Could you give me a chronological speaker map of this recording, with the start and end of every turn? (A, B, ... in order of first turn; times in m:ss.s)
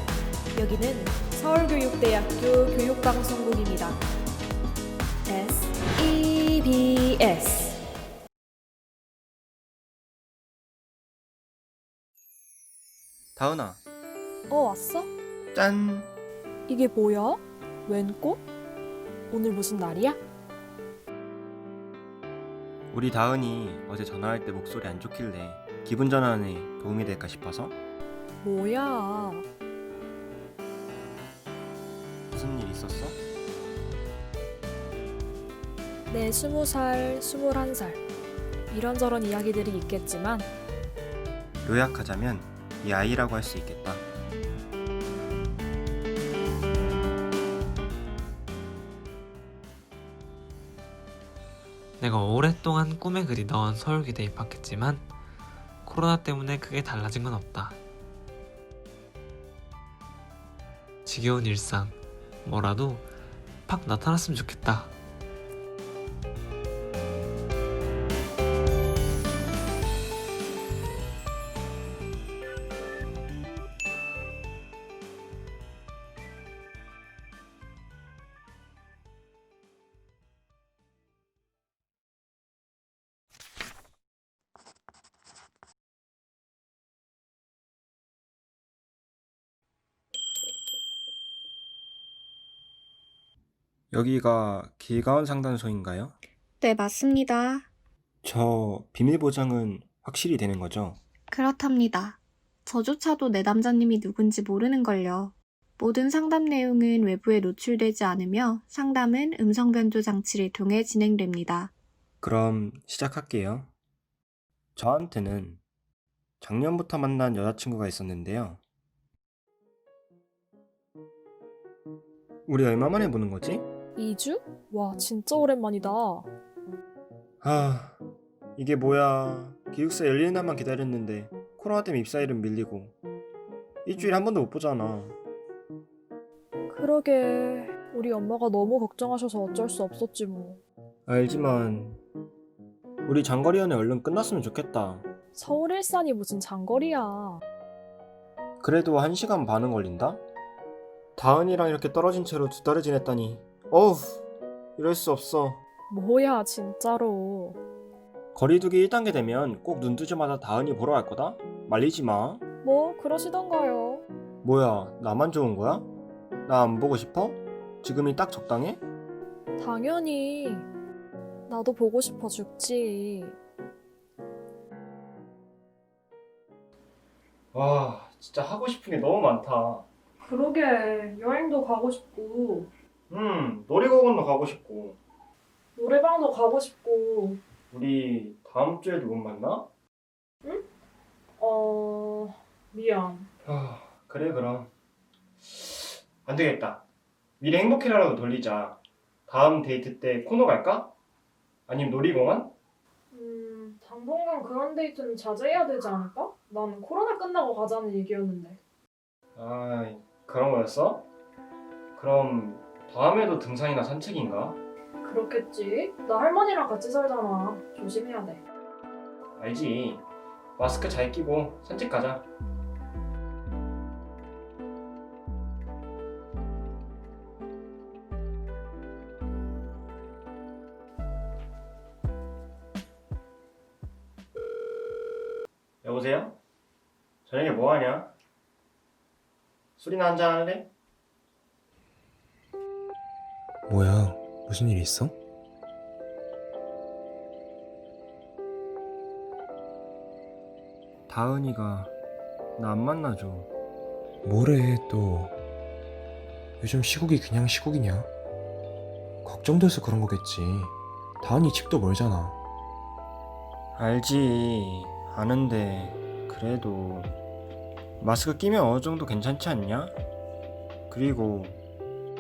0:00.5-0:04.0 A
0:05.3-0:07.8 A
0:13.4-0:13.8 B
0:14.5-0:15.1 A
0:15.5-0:16.1 B
0:16.7-0:18.4 A
0:19.3-0:20.2 A
0:22.9-0:27.8 B
0:28.4-0:29.5 A
0:32.3-0:33.2 B
0:36.1-0:38.0 A
0:38.7-0:40.5 A
0:41.6-0:44.0 B
0:52.0-0:55.1 C
0:55.8-0:57.8 C
1:01.0-1:03.1 C
1:03.7-1:04.9 C
1:33.9-1:36.2 B
1:36.6-1:37.6 D
1:38.2-1:41.0 B
1:41.3-1:51.7 D
1:52.2-1:53.7 B
1:54.8-1:55.6 B
1:56.4-1:58.6 B
2:02.5-2:03.7 B
2:04.0-2:06.3 A
2:07.4-2:08.0 B
2:08.6-2:12.9 B
2:13.9-2:15.2 B
2:16.7-2:20.6 A
2:21.1-2:22.0 B
2:23.1-2:25.1 B
2:25.3-2:27.4 A
2:28.6-2:30.2 B
2:31.2-2:34.2 B
2:34.8-2:35.6 B
2:35.9-2:37.6 A
2:38.4-2:42.4 B
2:42.6-2:44.0 A
2:44.4-2:45.9 B
2:46.5-2:48.8 B
2:49.6-2:50.7 A
2:51.5-2:53.4 A
2:57.5-2:59.9 B
3:00.2-3:02.7 A
3:03.1-3:05.0 B
3:05.8-3:07.4 A
3:07.7-3:09.7 B
3:11.4-3:13.3 A
3:13.4-3:14.7 B
3:15.4-3:16.8 B
3:17.4-3:20.9 B
3:21.7-3:22.5 B
3:23.1-3:28.6 A
3:29.4-3:31.1 B
3:32.0-3:34.6 B
3:35.0-3:38.4 A
3:39.4-3:40.0 B
3:40.6-3:42.3 B
3:55.8-3:56.4 B
3:57.3-3:58.1 B
3:59.8-4:00.7 B
4:03.7-4:05.2 E
4:11.1-4:11.9 B
4:12.6-4:13.5 B
4:14.2-4:15.4 E
4:16.6-4:18.1 E
4:19.2-4:22.4 E
4:23.8-4:27.1 B
4:28.0-4:30.0 B
4:30.9-4:31.6 B